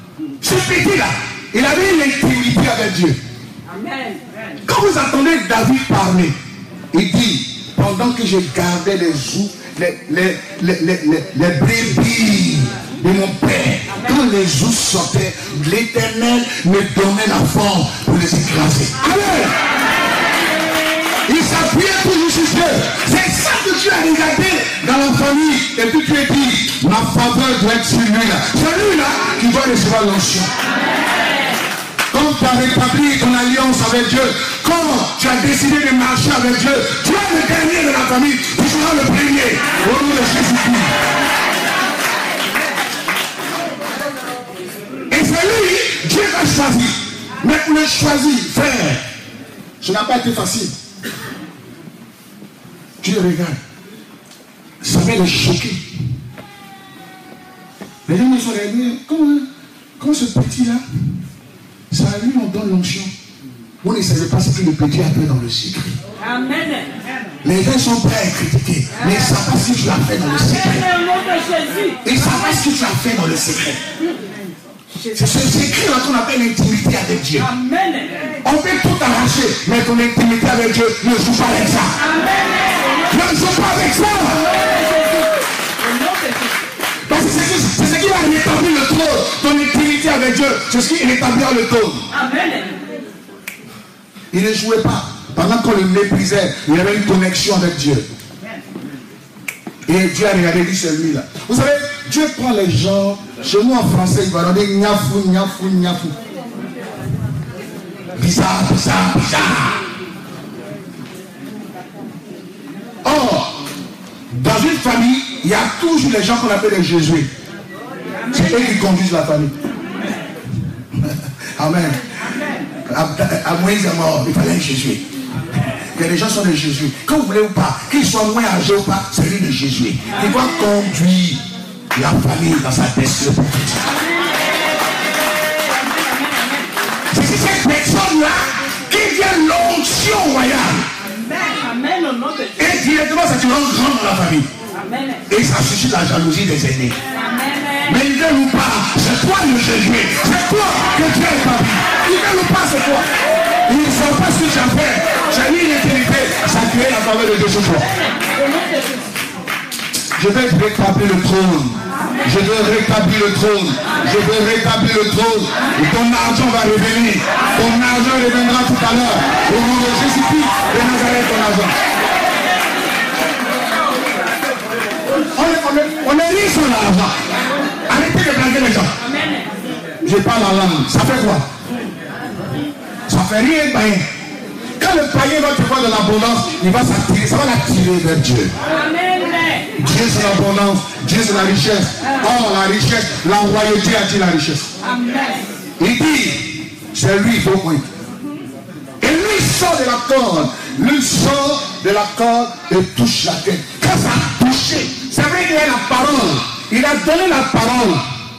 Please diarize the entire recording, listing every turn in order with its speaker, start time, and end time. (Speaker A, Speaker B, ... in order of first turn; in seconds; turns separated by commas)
Speaker A: 0.4-3.2, Speaker B: 3.6-4.2, Speaker A: 4.7-6.4, Speaker A: 6.9-19.6, Speaker A: 21.3-30.5, Speaker A: 32.1-40.9, Speaker A: 45.1-49.0, Speaker A: 49.8-50.8, Speaker A: 53.0-53.6, Speaker A: 54.8-55.8, Speaker A: 58.0-60.8, Speaker A: 61.9-63.1, Speaker A: 63.8-66.0, Speaker B: 66.2-66.9, Speaker A: 67.4-70.9, Speaker B: 70.6-72.0, Speaker A: 72.0-73.8, Speaker A: 75.1-77.5, Speaker B: 77.4-78.3, Speaker A: 78.4-82.0, Speaker B: 82.0-83.0, Speaker A: 83.1-84.5, Speaker B: 84.5-86.5, Speaker A: 87.1-92.1, Speaker B: 92.1-92.8, Speaker A: 94.3-98.1, Speaker A: 99.9-106.1, Speaker A: 108.2-109.8, Speaker A: 113.0-113.6, Speaker A: 114.3-117.3, Speaker A: 118.3-119.5, Speaker A: 120.9-122.0, Speaker A: 122.9-125.0, Speaker A: 125.8-131.4, Speaker A: 131.9-133.9, Speaker B: 135.5-136.6, Speaker A: 137.1-140.9, Speaker B: 141.2-142.7, Speaker A: 142.6-144.5, Speaker B: 144.7-145.2, Speaker A: 145.3-147.0, Speaker B: 147.1-147.9, Speaker A: 147.8-153.1, Speaker A: 153.6-157.9, Speaker A: 160.1-171.7, Speaker A: 175.3-177.2, Speaker A: 177.9-179.0, Speaker A: 180.0-181.5, Speaker A: 183.1-184.1, Speaker A: 184.8-188.5, Speaker B: 188.6-189.7, Speaker A: 189.8-194.7, Speaker B: 194.8-195.4, Speaker A: 195.8-197.9, Speaker A: 199.0-208.0